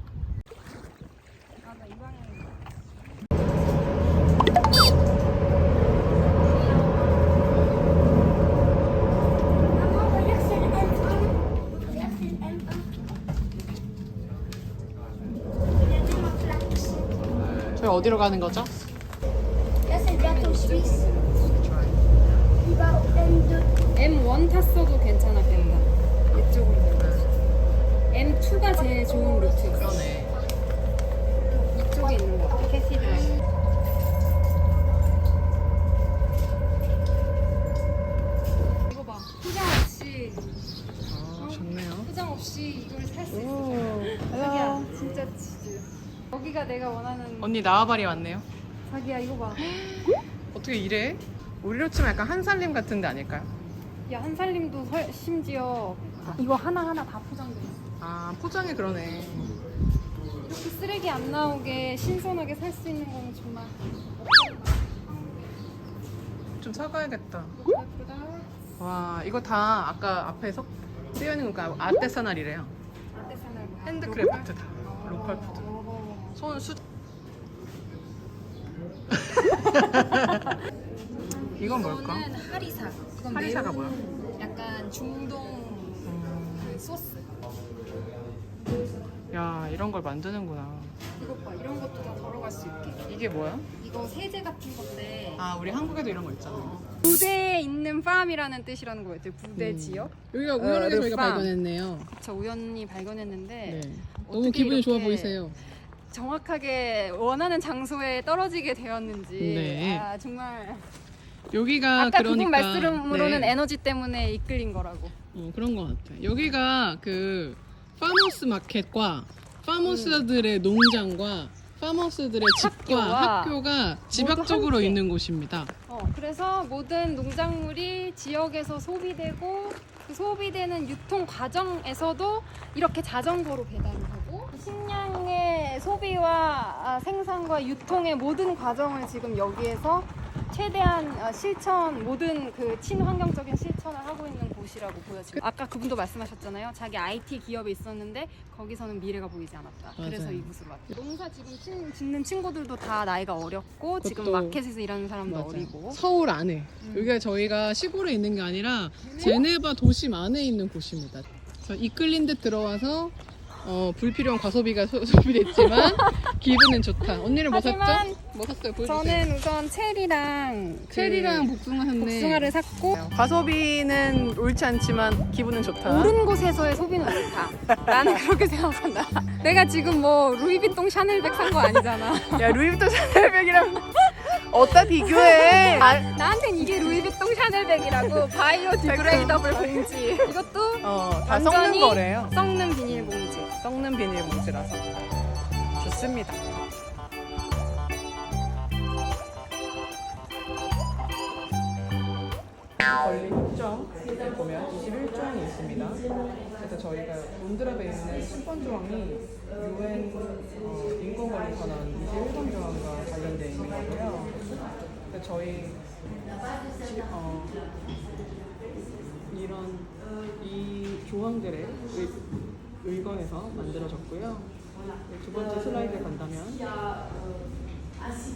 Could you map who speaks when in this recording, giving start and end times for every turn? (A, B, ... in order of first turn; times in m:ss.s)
0:01.6-0:02.6 A
0:09.8-0:12.8 B
0:15.9-0:17.0 B
0:17.7-0:18.7 C
0:19.9-0:21.6 A
0:21.5-0:22.0 C
0:22.6-0:23.7 B
0:23.9-0:27.3 A
0:25.5-0:25.9 C
0:27.0-0:27.3 C
0:28.1-0:29.9 A
0:29.7-0:30.3 C
0:31.6-0:33.3 A
0:38.9-0:40.5 A
0:41.1-0:42.1 C
0:41.4-0:47.6 A
0:43.3-0:44.9 C
0:47.4-0:48.4 C
0:48.9-0:49.7 A
0:49.6-0:53.5 C
0:54.1-0:57.9 A
0:58.0-0:59.6 C
1:00.4-1:05.5 A
1:06.6-1:07.6 C
1:07.5-1:08.5 A
1:08.8-1:12.7 C
1:13.1-1:16.4 A
1:13.8-1:15.7 C
1:16.4-1:16.8 C
1:19.3-1:20.6 C
1:21.3-1:27.3 A
1:21.6-1:22.3 C
1:23.3-1:24.0 C
1:26.0-1:26.8 C
1:29.3-1:30.9 C
1:31.2-1:33.0 A
1:33.0-1:33.6 C
1:33.8-1:35.4 A
1:35.4-1:37.2 C
1:37.0-1:41.5 A
1:39.6-1:42.1 C
1:42.1-1:45.5 A
1:43.6-1:45.6 C
1:46.1-1:50.9 A
1:49.4-1:50.1 C
1:51.5-1:53.6 C
1:52.0-1:55.1 A
1:55.3-2:05.7 C
1:59.8-2:00.2 A
2:02.6-2:03.6 A
2:04.1-2:05.0 A
2:05.9-2:36.0 A
2:30.0-2:30.5 C
2:34.0-2:34.6 C
2:35.2-2:49.3 C
2:36.8-2:37.1 A
2:39.0-2:39.5 A
2:45.7-2:46.2 A
2:47.5-2:48.2 A
2:48.8-2:53.0 A
2:50.9-2:56.1 C
2:55.8-3:02.6 A
2:57.7-2:58.2 C
3:02.4-3:07.0 C
3:03.9-3:13.5 A
3:08.0-3:10.3 C
3:10.8-3:12.3 C
3:12.9-3:14.8 C
3:15.8-3:16.4 C
3:22.8-3:26.0 C
3:26.6-3:34.4 C
3:35.1-3:35.8 C
3:36.8-3:37.6 C
3:39.3-3:42.2 C
3:42.8-3:44.5 C
3:45.1-3:46.6 C